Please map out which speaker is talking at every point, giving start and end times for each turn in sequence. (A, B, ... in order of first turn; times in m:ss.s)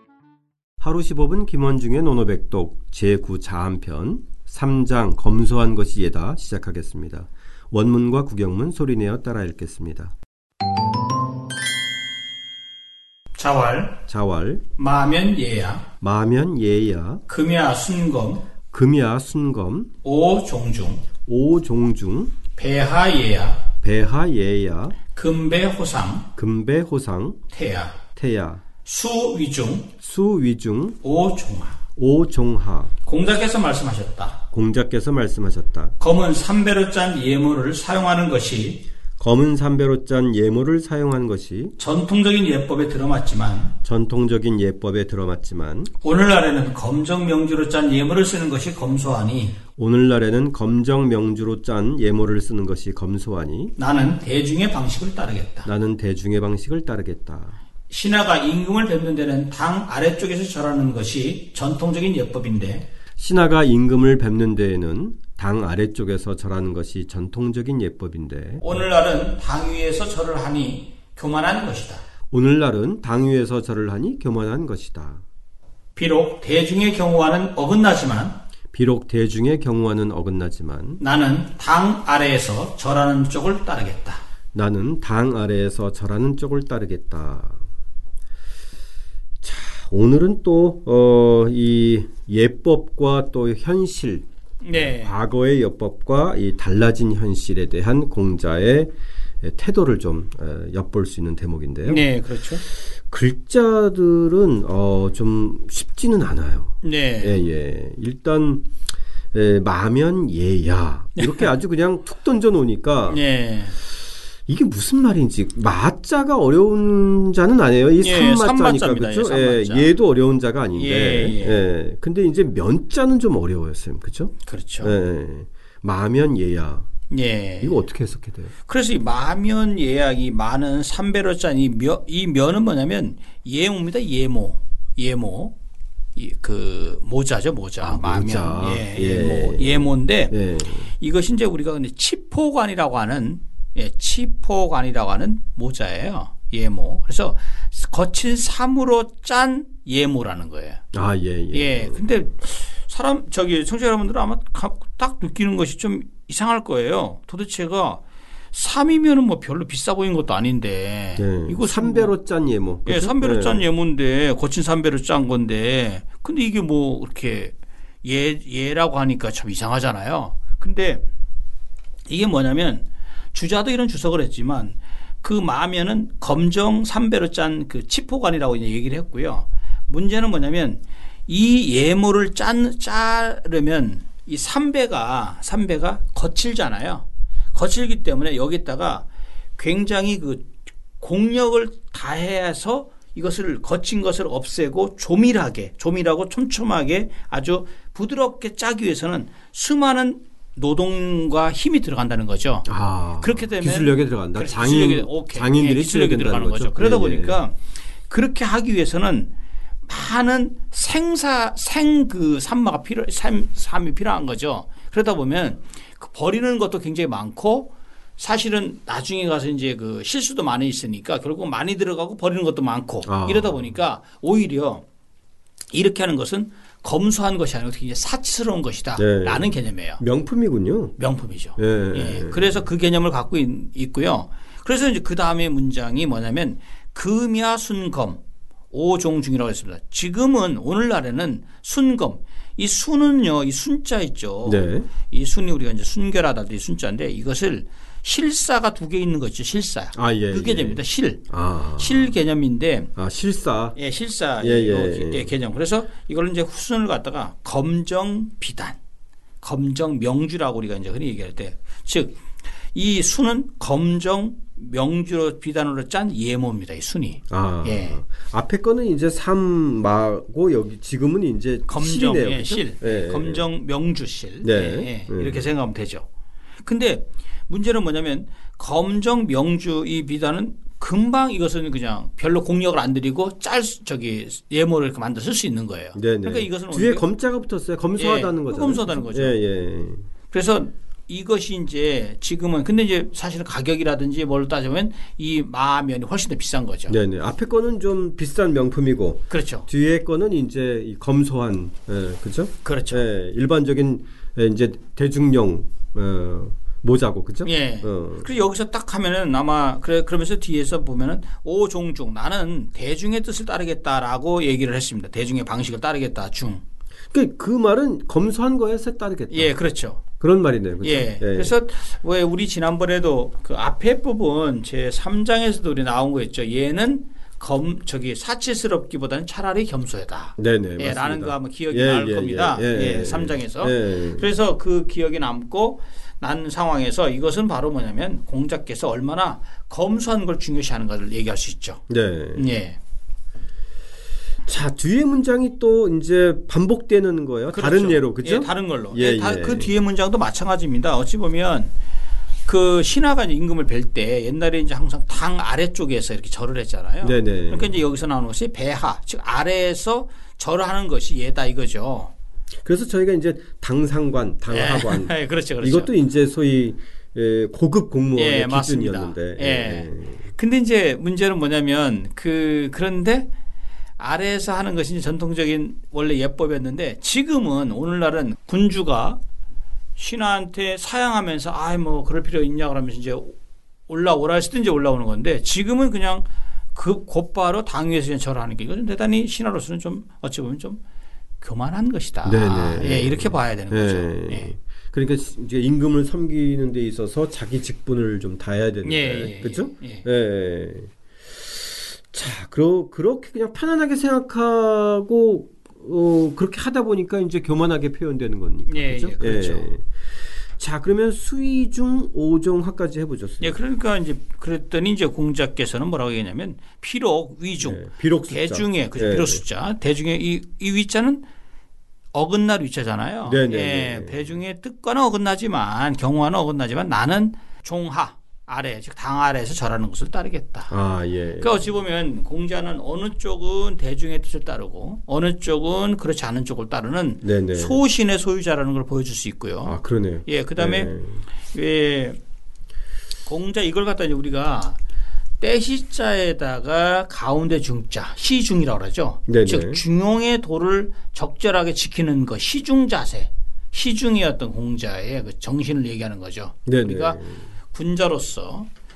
0:00.8-0:10.1 A
0:13.4-0:14.0 B
0:14.1-0:14.6 A
0:14.8-0:15.9 B
0:16.0-0:17.2 A
0:17.3-0:18.5 B
0:18.7-0:19.9 A
0:20.0-0:21.0 B
0:21.2-0:22.3 A
0:22.6-0:23.6 B
0:23.8-0:25.0 A
0:25.1-0:26.3 B
0:26.4-0:27.4 A
0:27.5-0:28.0 B
0:28.2-0:28.6 A
0:28.8-0:29.9 B
0:30.0-0:31.0 A
0:31.0-0:31.8 B
0:32.0-0:32.9 A
0:33.0-0:34.4 B
0:34.5-0:35.9 A
0:36.0-0:38.8 B
0:39.2-0:41.8 A
0:41.8-0:43.7 B
0:43.8-0:45.9 A
0:46.0-0:49.6 B
0:49.8-0:53.7 A
0:53.8-0:55.7 B
0:55.6-0:57.6 A
0:57.9-1:02.9 B
1:03.2-1:08.6 A
1:08.6-1:12.0 B
1:12.3-1:15.2 A
1:16.0-1:18.4 B
1:18.7-1:21.0 A
1:21.0-1:24.2 B
1:24.5-1:27.6 A
1:29.4-1:38.9 A
1:34.6-1:35.1 B
1:39.4-1:42.0 A
1:41.8-1:42.6 B
1:43.1-1:48.6 A
1:46.8-1:47.4 B
1:49.3-1:53.2 A
1:51.2-1:51.5 B
1:53.1-1:53.8 B
1:54.5-2:06.9 A
1:58.0-1:59.9 B
2:00.7-2:01.6 B
2:04.5-2:04.9 B
2:07.1-2:07.8 B
2:07.6-2:08.5 A
2:08.6-2:15.5 B
2:16.2-2:30.8 B
2:17.8-2:20.9 A
2:30.9-2:32.2 A
2:31.5-2:42.1 B
2:41.2-2:43.6 A
2:42.8-2:51.0 B
2:52.1-3:22.6 B
3:22.6-3:27.4 A
3:23.2-3:29.3 B
3:29.8-3:44.8 B
3:43.0-3:43.7 A
3:45.7-3:50.0 B
3:49.0-3:51.0 A
3:51.0-4:12.9 B
3:51.6-3:52.6 A
4:04.4-4:04.9 A
4:09.9-4:12.1 A
4:13.0-4:13.8 A
4:13.8-4:18.8 B
4:14.4-4:15.3 A
4:19.4-4:22.2 B
4:22.7-4:28.0 B
4:27.3-4:33.5 A
4:31.6-4:36.0 B
4:34.4-4:35.5 A
4:36.6-4:47.0 B
4:45.9-4:50.0 A
4:48.0-4:49.4 B
4:50.3-4:57.0 B
4:56.9-5:08.3 A
4:59.3-4:59.7 B
5:02.6-5:03.0 B
5:07.4-5:16.6 B
5:17.1-5:19.5 A
5:19.3-5:20.0 B
5:20.2-5:21.5 A
5:20.8-5:41.8 B
5:30.4-5:34.3 A
5:41.9-5:42.4 A
5:42.3-5:42.8 B
5:44.4-5:49.7 A
5:47.5-5:51.7 B
5:52.4-6:02.1 B
5:57.0-5:57.8 A
6:02.6-6:10.2 A
6:04.5-6:05.9 B
6:08.1-6:13.3 B
6:14.0-6:19.2 B
6:20.0-6:23.4 B
6:23.9-6:30.8 B
6:31.4-6:34.5 B
6:32.2-6:40.9 A
6:38.8-6:40.0 B
6:41.4-6:49.9 A
6:48.7-6:49.7 B
6:50.6-6:53.6 A
6:53.4-7:01.2 B
6:57.6-6:59.4 A
7:02.1-7:10.7 B
7:03.2-7:04.3 A
7:10.7-7:11.6 A
7:11.4-7:20.9 B
7:17.2-7:17.8 A
7:19.6-7:21.2 A
7:21.4-7:22.2 B
7:23.2-7:24.8 B
7:25.4-7:37.2 B
7:29.3-7:29.8 A
7:36.6-7:37.5 A
7:37.7-7:38.7 B